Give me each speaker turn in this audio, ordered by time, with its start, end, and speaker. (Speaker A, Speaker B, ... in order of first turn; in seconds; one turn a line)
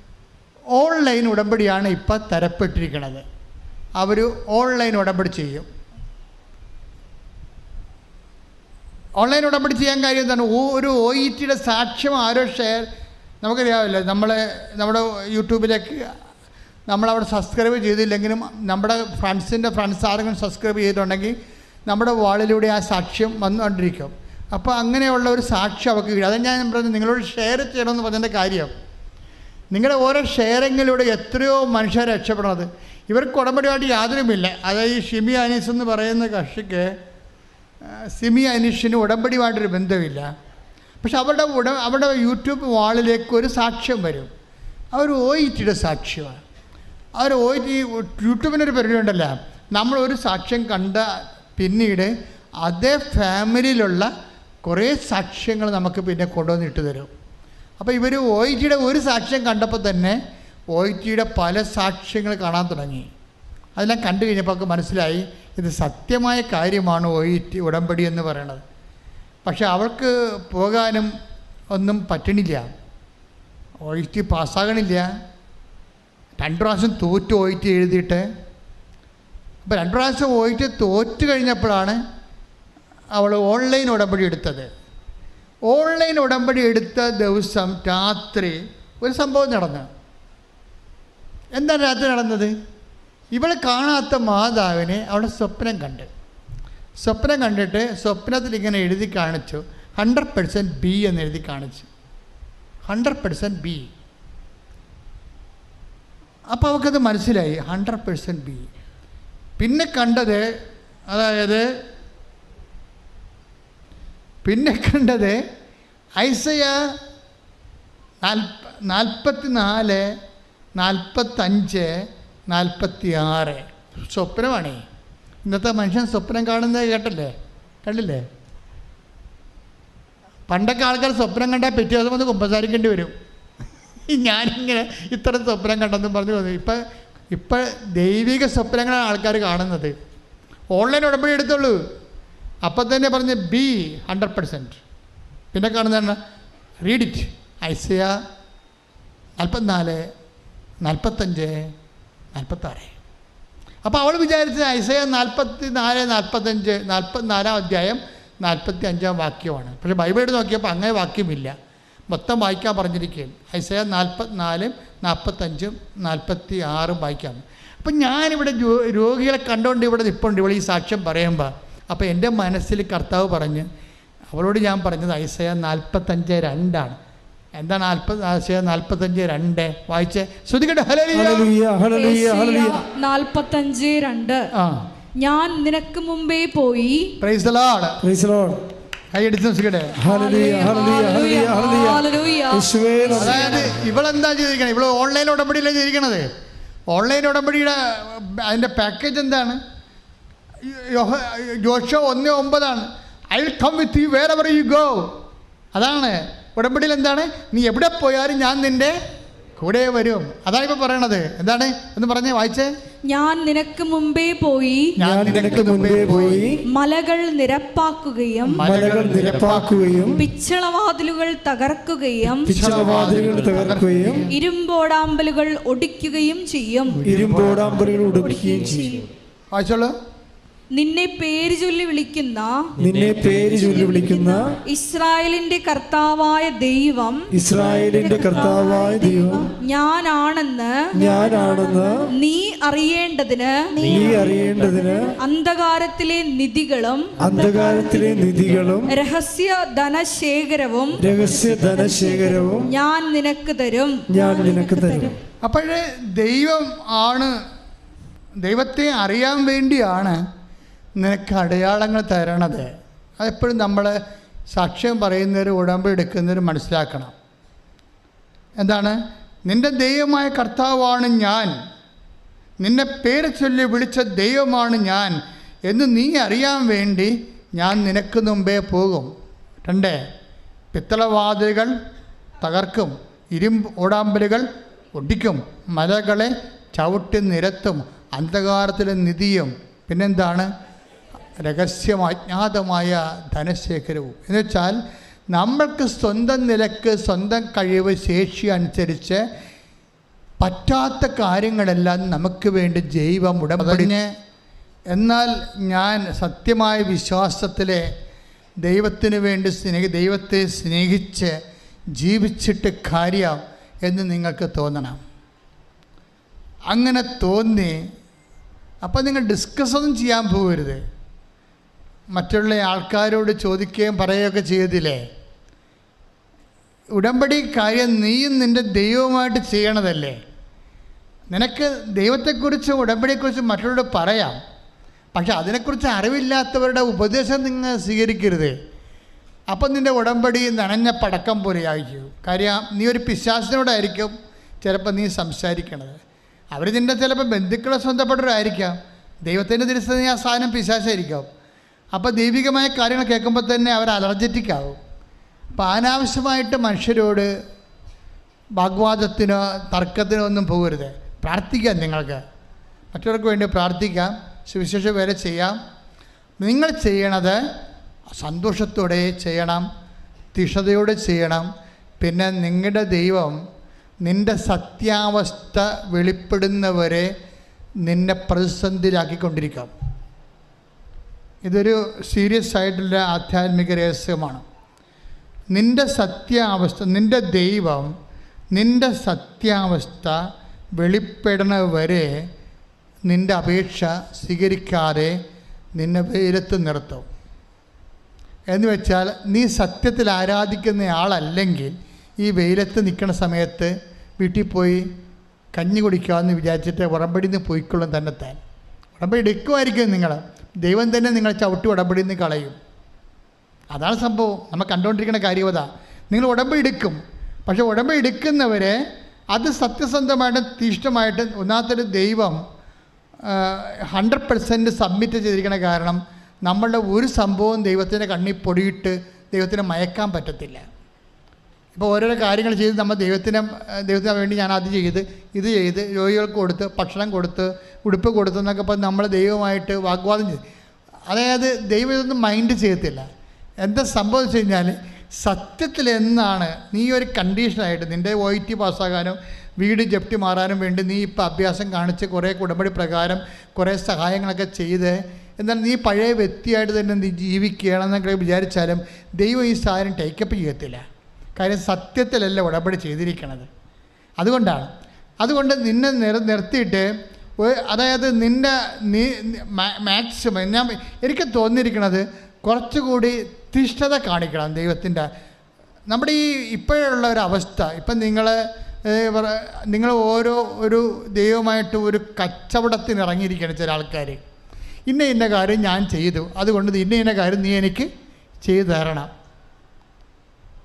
Speaker A: 0.7-3.2
Speaker A: 4.0-5.7
Speaker A: 9.2-12.9
Speaker A: 13.4-16.1
Speaker A: 16.9-21.3
Speaker A: 21.9-28.7
Speaker A: 29.7-36.9
Speaker A: 37.9-40.3
Speaker A: 41.0-44.3
Speaker A: 44.9-46.4
Speaker A: 47.2-52.1
Speaker A: 52.6-54.1
Speaker A: 54.6-57.1
Speaker A: 57.8-60.2
Speaker A: 60.7-63.1
Speaker A: 63.8-68.6
Speaker A: 69.4-71.1
Speaker A: 71.7-72.7
Speaker A: 73.8-75.1
Speaker A: 76.4-78.2
Speaker A: 79.7-82.0
Speaker A: 83.2-84.7
Speaker A: 85.7-89.9
Speaker A: 91.5-92.5
Speaker A: 93.3-96.1
Speaker A: 97.0-101.9
Speaker A: 102.9-103.9
Speaker A: 106.5-108.7
Speaker A: 109.6-110.4
Speaker A: 111.1-111.7
Speaker A: 114.4-115.4
Speaker A: 116.2-116.8
Speaker A: 118.2-120.1
Speaker A: 120.8-124.8
Speaker A: 125.4-128.2
Speaker A: 130.5-133.1
Speaker A: 134.1-136.8
Speaker A: 137.3-139.9
Speaker A: 140.7-141.8
Speaker A: 142.6-144.8
Speaker A: 145.5-146.2
Speaker A: 146.8-148.2
Speaker A: 149.4-150.1
Speaker A: 150.8-151.7
Speaker A: 152.3-153.0
Speaker A: 153.8-161.6
Speaker A: 162.1-173.7
Speaker A: 174.3-177.0
Speaker A: 177.6-181.5
Speaker B: 181.1-182.8
Speaker C: 181.9-184.5
Speaker A: 184.5-184.8
Speaker C: 185.2-187.1
Speaker A: 187.2-188.0
Speaker B: 188.0-188.6
Speaker A: 189.1-190.0
Speaker B: 190.0-193.7
Speaker C: 190.0-193.5
Speaker A: 193.2-196.3
Speaker A: 196.9-199.6
Speaker A: 200.6-205.1
Speaker A: 205.7-209.0
Speaker A: 209.6-212.7
Speaker C: 213.1-215.0
Speaker A: 215.0-216.6
Speaker B: 215.0-216.6
Speaker C: 216.7-218.6
Speaker A: 218.5-220.1
Speaker B: 218.6-220.2
Speaker C: 220.1-222.5
Speaker B: 222.4-224.2
Speaker A: 222.5-224.3
Speaker C: 224.3-227.0
Speaker A: 227.0-227.6
Speaker B: 227.0-229.0
Speaker A: 229.5-229.9
Speaker C: 230.7-232.7
Speaker B: 232.8-234.6
Speaker C: 234.6-237.3
Speaker B: 237.3-239.5
Speaker C: 237.9-241.0
Speaker B: 240.9-242.1
Speaker C: 242.1-244.0
Speaker B: 243.8-245.2
Speaker C: 245.1-247.2
Speaker B: 247.2-249.0
Speaker C: 248.9-251.1
Speaker B: 251.0-252.7
Speaker C: 251.8-255.1
Speaker B: 254.1-255.2
Speaker A: 255.4-257.4
Speaker A: 258.4-260.2
Speaker A: 261.0-263.9
Speaker A: 264.5-267.1
Speaker A: 268.6-271.6
Speaker A: 272.6-275.2
Speaker A: 275.7-279.1
Speaker A: 279.6-280.0
Speaker A: 280.7-281.7
Speaker A: 282.4-290.5
Speaker A: 291.4-294.8
Speaker A: 295.3-299.2
Speaker A: 300.4-304.1
Speaker A: 304.9-307.9
Speaker A: 308.6-311.4
Speaker A: 311.9-315.0
Speaker A: 316.7-317.8
Speaker A: 318.8-320.8
Speaker A: 322.1-325.0
Speaker A: 326.9-330.2
Speaker A: 331.3-334.4
Speaker A: 335.1-338.5
Speaker A: 339.5-346.0
Speaker A: 346.5-351.3
Speaker A: 351.9-354.8
Speaker A: 355.5-357.3
Speaker A: 358.6-362.2
Speaker A: 362.9-365.6
Speaker A: 366.4-367.4
Speaker A: 368.1-369.7
Speaker A: 370.3-371.5
Speaker A: 372.0-373.4
Speaker A: 374.0-377.1
Speaker A: 377.8-379.7
Speaker A: 381.4-384.4
Speaker A: 385.5-387.9
Speaker A: 388.5-390.2
Speaker A: 390.8-392.1
Speaker A: 393.1-395.2
Speaker A: 395.8-397.1
Speaker A: 398.5-404.9
Speaker A: 405.5-408.4
Speaker A: 409.0-412.6
Speaker A: 413.7-418.8
Speaker A: 419.3-422.4
Speaker A: 423.2-430.6
Speaker A: 431.7-440.4
Speaker A: 441.1-443.1
Speaker A: 443.6-460.8
Speaker A: 461.4-463.5
Speaker A: 464.2-464.7
Speaker A: 465.2-466.9
Speaker A: 467.4-475.1
Speaker A: 475.9-484.2
Speaker A: 484.9-487.9
Speaker A: 488.4-489.1